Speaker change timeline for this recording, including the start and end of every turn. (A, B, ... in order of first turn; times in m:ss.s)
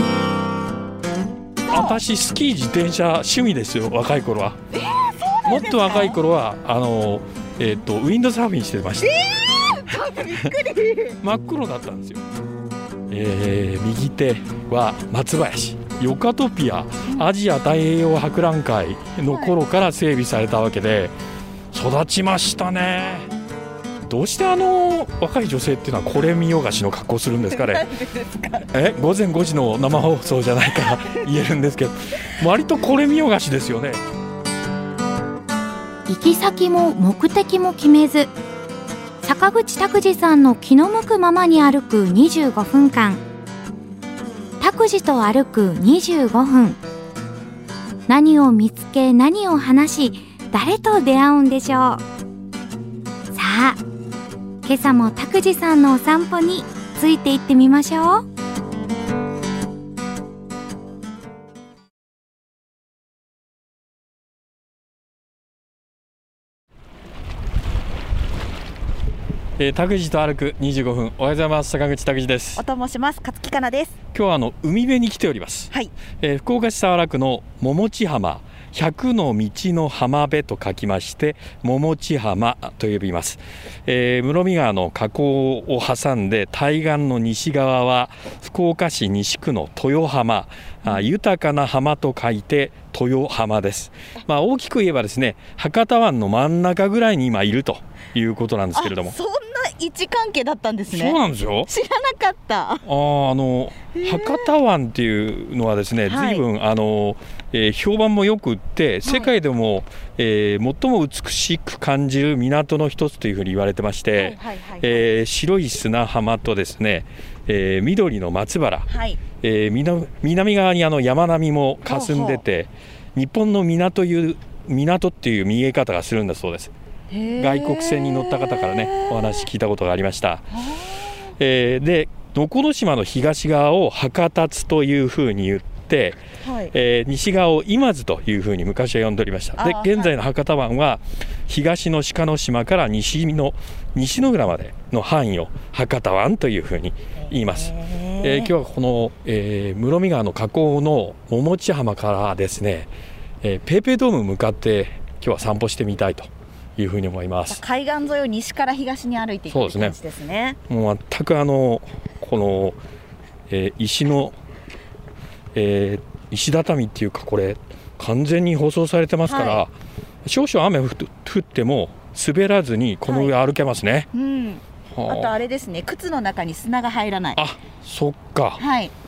0:01.7-0:02.0 A
0:01.7-0:04.6 B
0:04.7-0:06.2 A
0:05.4-0:09.2 B
0:09.0-0:11.2 A
0:11.2-0:12.2 B
0:13.1-0:21.1 B
0:17.1-0:17.3 A
0:19.3-0:19.6 A
0:21.7-0:23.3 B
0:24.1-0:27.9 B
0:27.5-0:28.7 A
0:28.7-0:34.0 B
0:36.1-0:38.3 C
0:39.2-0:43.2 C
0:44.6-0:46.8 C
0:48.1-0:52.0 C
0:53.3-0:53.8 C
0:54.6-0:58.2 C
1:09.6-1:12.6 B
1:12.6-1:14.0 A
1:14.1-1:39.2 B
1:38.8-1:42.8 A
1:40.9-1:41.7 B
1:42.9-1:58.9 B
1:43.9-1:44.5 A
1:46.1-1:46.4 A
1:49.0-1:49.3 A
1:54.2-1:55.1 A
1:58.9-1:59.2 A
1:59.4-2:06.7 B
2:01.9-2:02.4 A
2:07.1-2:09.4 A
2:07.4-2:10.5 B
2:10.5-2:11.3 A
2:11.4-2:16.2 B
2:16.4-2:16.7 A
2:16.7-2:32.9 B
2:19.6-2:20.1 A
2:27.2-2:28.5 A
2:33.4-2:37.6 B
2:37.5-2:40.6 A
2:39.5-2:40.0 B
2:40.7-2:42.8 B
2:43.5-2:44.4 B
2:45.5-2:49.7 B
2:49.3-2:49.6 A
2:50.2-2:54.1 B
2:53.1-2:53.3 A
2:54.1-2:57.4 A
2:55.0-2:55.3 B
2:57.4-2:58.6 B
2:58.6-2:58.9 A